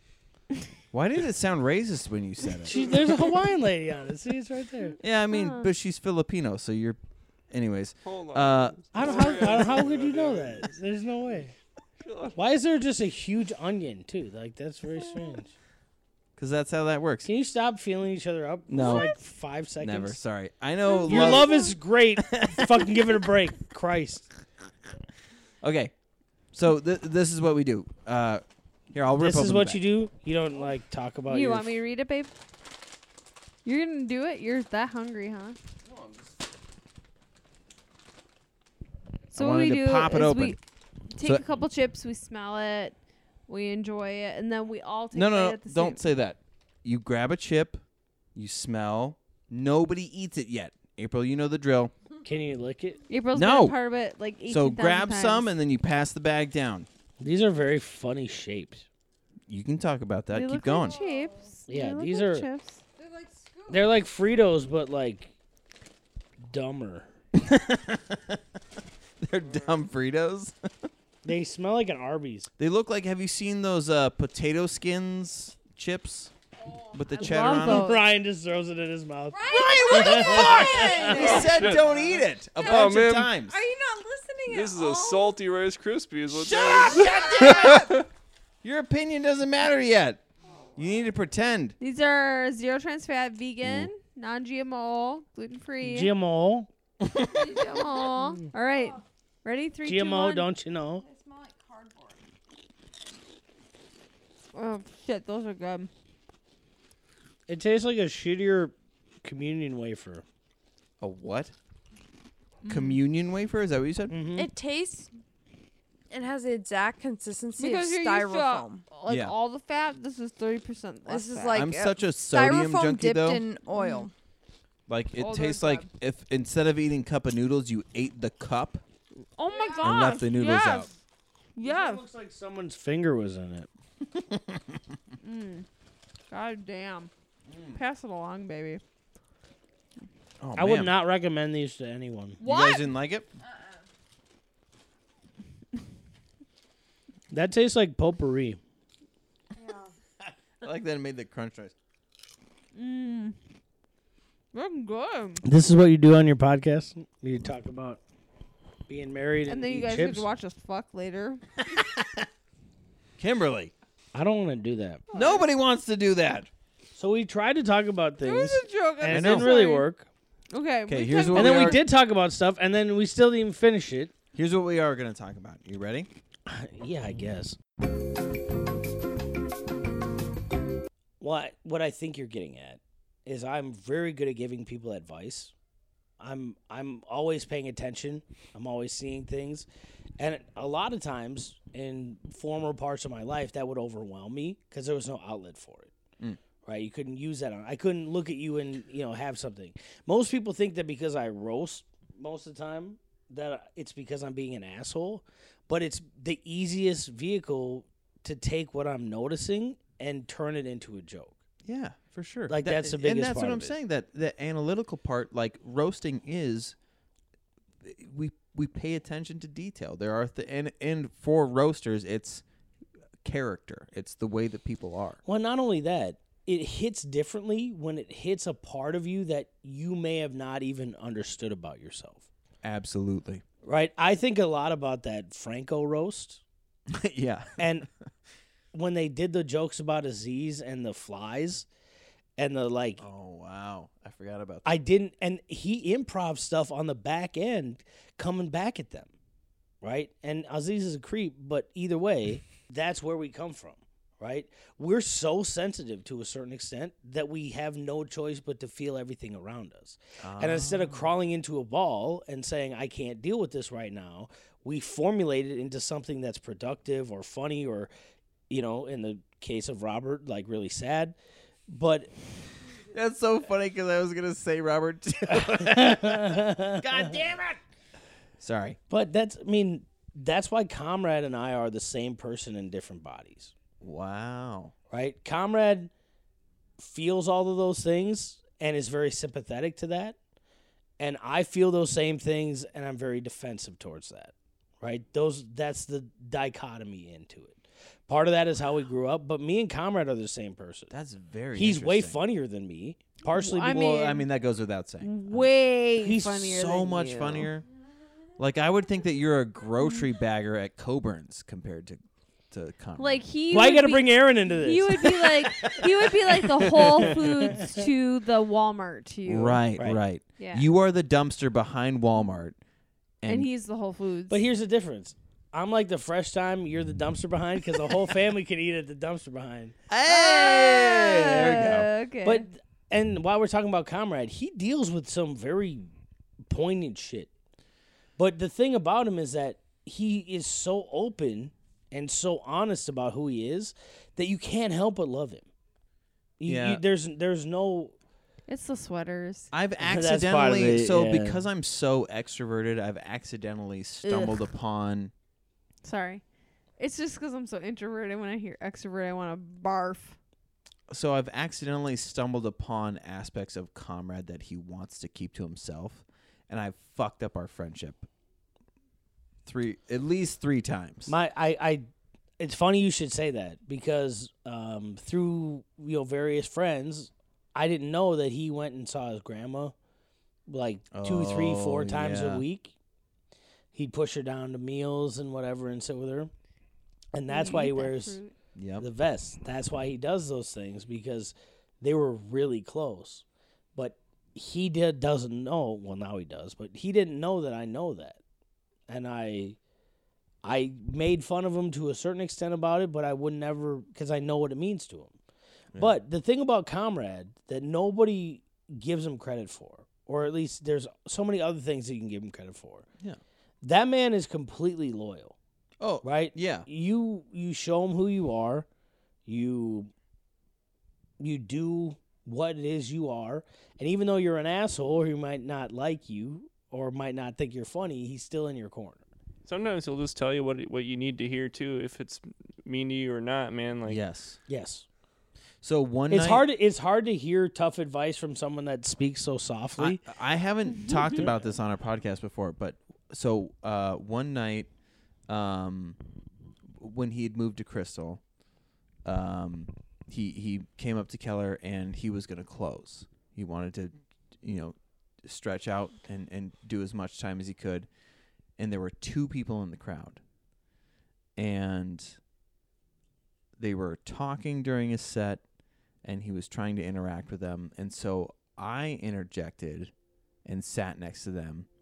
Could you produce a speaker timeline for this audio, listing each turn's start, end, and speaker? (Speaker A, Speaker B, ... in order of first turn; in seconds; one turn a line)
Speaker A: 0.9-3.1
Speaker B: 2.7-5.0
Speaker A: 5.0-7.0
Speaker C: 5.3-5.7
Speaker A: 7.5-9.2
Speaker D: 8.0-10.7
Speaker B: 8.9-11.5
Speaker D: 12.0-12.3
Speaker B: 12.3-15.5
Speaker A: 16.4-17.3
Speaker B: 17.2-20.2
Speaker A: 18.7-19.1
Speaker C: 18.8-19.1
Speaker A: 19.8-23.1
Speaker C: 20.9-21.8
Speaker B: 21.0-24.3
Speaker A: 25.6-25.9
Speaker A: 26.5-29.8
Speaker B: 29.2-31.6
Speaker C: 31.3-32.3
Speaker C: 33.6-35.6
Speaker A: 39.3-40.6
Speaker C: 39.3-40.6
Speaker C: 41.1-43.0
Speaker C: 43.5-46.0
Speaker A: 45.1-47.8
Speaker A: 48.3-51.9
Speaker B: 52.2-53.0
Speaker C: 53.1-55.5
Speaker A: 53.3-53.8
Speaker A: 54.5-56.9
Speaker B: 57.2-58.9
Speaker A: 59.5-61.0
Speaker C: 60.3-62.8
Speaker E: 60.8-61.5
Speaker B: 61.7-62.5
Speaker E: 63.0-63.9
Speaker B: 63.7-65.3
Speaker B: 66.5-67.1
Speaker A: 67.3-68.4
Speaker A: 69.2-70.9
Speaker B: 71.2-72.5
Speaker A: 72.6-76.3
Speaker A: 76.9-77.9
Speaker C: 77.1-78.0
Speaker B: 77.4-81.4
Speaker E: 79.3-81.8
Speaker A: 79.5-83.5
Speaker D: 81.2-82.0
Speaker D: 82.6-83.3
Speaker E: 83.4-85.3
Speaker D: 84.5-88.0
Speaker A: 86.3-88.0
Speaker E: 86.5-88.0
Speaker A: 88.6-90.2
Speaker E: 90.6-90.9
Speaker A: 90.8-91.8
Speaker C: 91.8-96.1
Speaker A: 93.6-93.9
Speaker B: 95.8-96.7
Speaker A: 97.0-97.6
Speaker C: 97.3-100.5
Speaker E: 97.4-97.7
Speaker B: 99.8-101.0
Speaker E: 101.0-102.2
Speaker C: 104.5-105.9
Speaker B: 107.5-110.2
Speaker A: 111.0-111.5
Speaker C: 112.6-113.0
Speaker A: 112.7-114.2
Speaker B: 114.1-114.5
Speaker E: 114.3-115.1
Speaker E: 116.1-118.8
Speaker C: 117.6-121.7
Speaker A: 119.1-119.3
Speaker E: 121.0-124.1
Speaker A: 121.5-123.4
Speaker C: 123.7-124.1
Speaker A: 124.9-128.8
Speaker C: 125.2-125.9
Speaker C: 129.3-130.9
Speaker E: 129.5-130.1
Speaker A: 129.8-130.9
Speaker C: 131.6-132.0
Speaker B: 131.6-133.7
Speaker A: 134.1-134.9
Speaker C: 135.2-135.7
Speaker C: 136.3-137.1
Speaker A: 137.5-137.8
Speaker C: 137.7-138.8
Speaker A: 140.4-140.9
Speaker B: 140.6-142.4
Speaker C: 142.4-142.9
Speaker A: 142.4-143.3
Speaker B: 147.3-148.6
Speaker E: 149.6-149.9
Speaker A: 150.6-151.7
Speaker C: 152.7-153.3
Speaker C: 154.5-155.4
Speaker B: 155.4-158.0
Speaker B: 158.9-160.3
Speaker C: 159.5-161.4
Speaker A: 161.7-162.3
Speaker A: 163.2-163.7
Speaker B: 164.1-165.0
Speaker C: 165.1-165.5
Speaker A: 165.1-166.5
Speaker B: 166.9-170.1
Speaker C: 168.2-169.9
Speaker A: 169.1-169.5
Speaker C: 170.5-171.8
Speaker A: 170.9-171.8
Speaker B: 171.3-174.1
Speaker A: 174.3-176.1
Speaker B: 176.5-177.6
Speaker B: 181.2-185.5
Speaker B: 186.2-189.7
Speaker B: 190.2-195.9
Speaker B: 196.6-211.4
Speaker A: 211.6-216.8
Speaker B: 212.5-213.8
Speaker A: 217.8-222.4
Speaker A: 223.2-225.2
Speaker B: 225.2-232.2
Speaker A: 232.6-233.4
Speaker B: 233.6-236.4
Speaker A: 236.9-237.6
Speaker B: 237.6-237.9
Speaker B: 238.7-241.7
Speaker B: 242.4-243.0
Speaker A: 243.0-244.8
Speaker B: 244.6-249.1
Speaker B: 249.8-267.9
Speaker A: 260.2-261.0
Speaker B: 268.5-271.1
Speaker B: 271.7-272.1
Speaker A: 272.9-277.6
Speaker B: 275.3-276.8
Speaker A: 278.4-278.8
Speaker B: 278.9-283.5
Speaker A: 283.8-284.7
Speaker B: 284.9-285.9
Speaker B: 286.8-290.2
Speaker B: 291.0-300.9
Speaker A: 300.9-302.2
Speaker B: 301.5-303.8
Speaker C: 303.3-304.2
Speaker A: 303.6-305.5
Speaker C: 305.0-307.5
Speaker B: 306.0-306.5
Speaker A: 306.3-307.6
Speaker A: 308.4-313.2
Speaker C: 309.8-310.1
Speaker C: 313.0-319.6
Speaker B: 313.5-315.8
Speaker A: 315.6-316.9
Speaker B: 316.7-317.8
Speaker A: 319.2-322.6
Speaker C: 320.4-320.7
Speaker A: 323.2-323.5
Speaker C: 323.2-324.4
Speaker B: 324.3-329.8
Speaker A: 329.9-331.9
Speaker C: 330.1-332.4
Speaker B: 332.2-335.9
Speaker B: 336.5-337.3
Speaker B: 338.2-345.4
Speaker B: 346.4-347.9
Speaker A: 346.4-346.8
Speaker C: 348.5-349.5
Speaker A: 349.5-355.1
Speaker B: 349.8-351.4
Speaker C: 354.0-354.4
Speaker C: 355.8-356.2
Speaker C: 356.8-360.1
Speaker A: 360.9-368.1
Speaker A: 369.4-371.1
Speaker B: 371.1-371.9
Speaker B: 372.4-379.7
Speaker B: 380.5-382.7
Speaker A: 380.9-382.4
Speaker B: 383.7-386.3
Speaker B: 387.1-388.2
Speaker C: 387.3-388.3
Speaker A: 388.5-388.8
Speaker B: 388.8-393.2
Speaker B: 393.7-398.2
Speaker B: 398.9-399.6
Speaker B: 400.4-405.1
Speaker B: 405.8-412.9
Speaker B: 413.6-415.3
Speaker A: 415.8-416.7
Speaker B: 416.0-418.6
Speaker B: 419.3-419.9
Speaker B: 421.2-429.0
Speaker D: 429.4-434.0
Speaker A: 433.9-434.4
Speaker B: 434.5-434.9
Speaker A: 435.6-436.4
Speaker B: 436.1-440.0
Speaker A: 439.8-444.7
Speaker A: 445.3-446.0
Speaker A: 446.8-448.2
Speaker A: 449.0-457.9
Speaker A: 458.6-460.2
Speaker A: 461.4-462.2
Speaker A: 463.6-465.4
Speaker A: 466.0-469.9
Speaker A: 470.4-471.7